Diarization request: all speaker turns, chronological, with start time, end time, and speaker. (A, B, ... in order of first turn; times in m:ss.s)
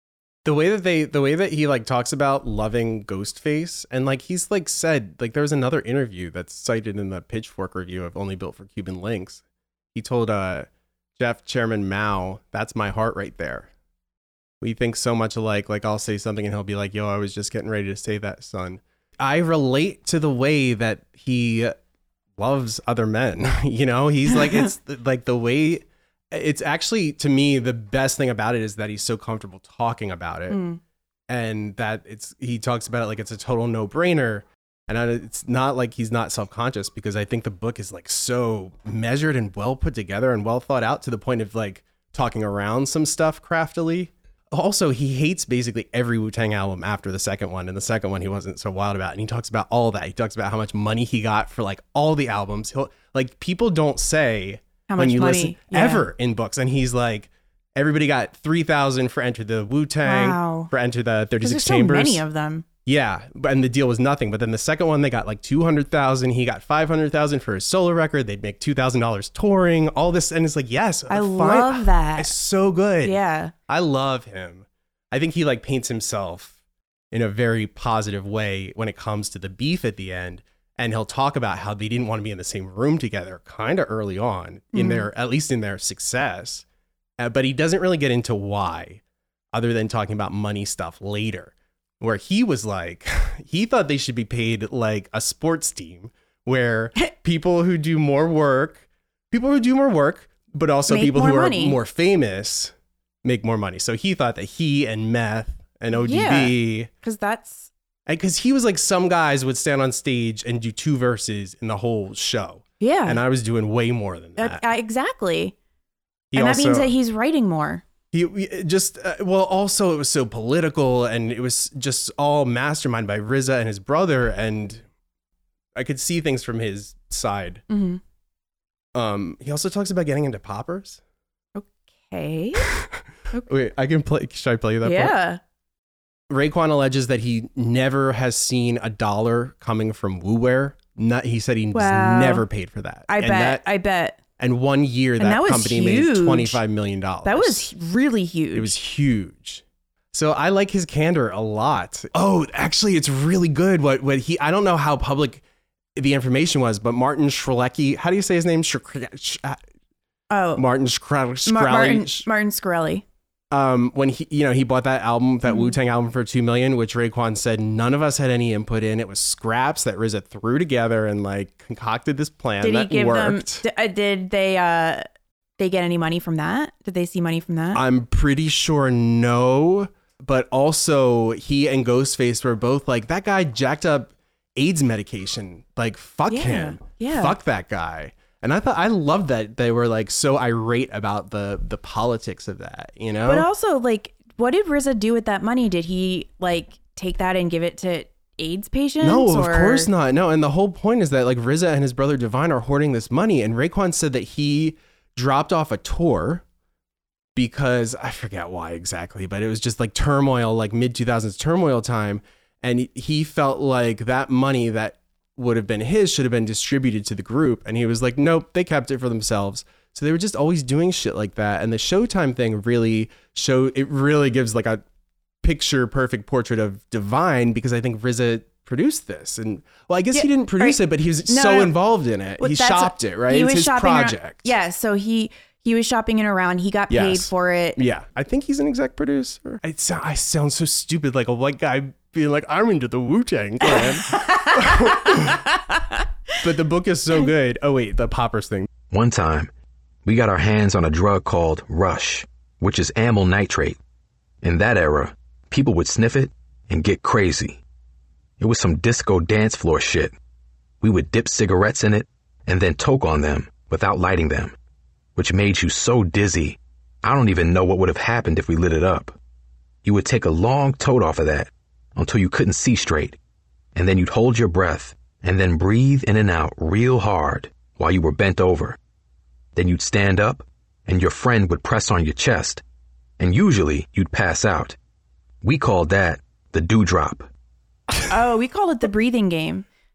0:00.4-0:09.4 A
0:09.9-0:13.7 A
0:14.6-0:21.8 A
0:22.4-0:30.6 A
0:30.5-0:30.8 B
0:31.3-1:02.2 A
0:54.9-0:56.1 B
1:00.0-1:00.7 B
1:01.4-1:02.6 B
1:02.9-1:16.6 A
1:11.1-1:12.4 B
1:13.0-1:13.5 B
1:17.1-1:26.6 A
1:24.7-1:25.1 B
1:27.2-1:42.7 A
1:40.9-1:41.8 B
1:43.2-1:46.9 A
1:46.0-1:47.7 B
1:48.1-1:54.6 A
1:52.8-1:53.2 B
1:54.4-1:55.6 B
1:56.3-1:56.9 A
1:56.3-1:57.8 B
1:58.1-2:04.8 A
2:05.8-2:07.6 A
2:07.7-2:08.0 B
2:09.0-2:11.0 A
2:11.6-2:12.7 B
2:12.6-2:15.1 A
2:14.8-2:15.4 B
2:16.3-2:23.6 A
2:21.7-2:22.4 B
2:23.1-2:24.2 B
2:24.4-2:27.7 A
2:25.2-2:26.6 B
2:27.2-2:28.8 B
2:28.5-2:35.4 A
2:36.0-2:39.6 A
2:40.3-2:40.6 B
2:40.6-2:42.3 A
2:41.4-2:43.0 B
2:43.5-2:53.6 A
2:45.5-2:45.8 B
2:52.6-2:55.0 B
2:55.6-2:57.8 B
2:57.7-3:13.5 A
3:06.3-3:07.4 B
3:13.2-3:19.9 B
3:19.0-3:26.4 A
3:27.4-3:44.8 A
3:45.4-3:54.6 A
3:50.1-3:51.8 B
3:52.4-3:57.8 B
3:56.9-4:05.5 A
4:03.7-4:06.0 B
4:06.4-4:08.7 A
4:08.9-4:09.5 C
4:10.0-4:13.8 C
4:14.4-4:17.6 C
4:18.4-4:20.2 C
4:20.8-4:24.6 C
4:25.2-4:29.2 C
4:29.8-4:33.2 C
4:33.8-4:38.8 C
4:39.6-4:42.6 C
4:43.2-4:44.8 C
4:45.4-4:47.3 C
4:48.1-4:49.7 B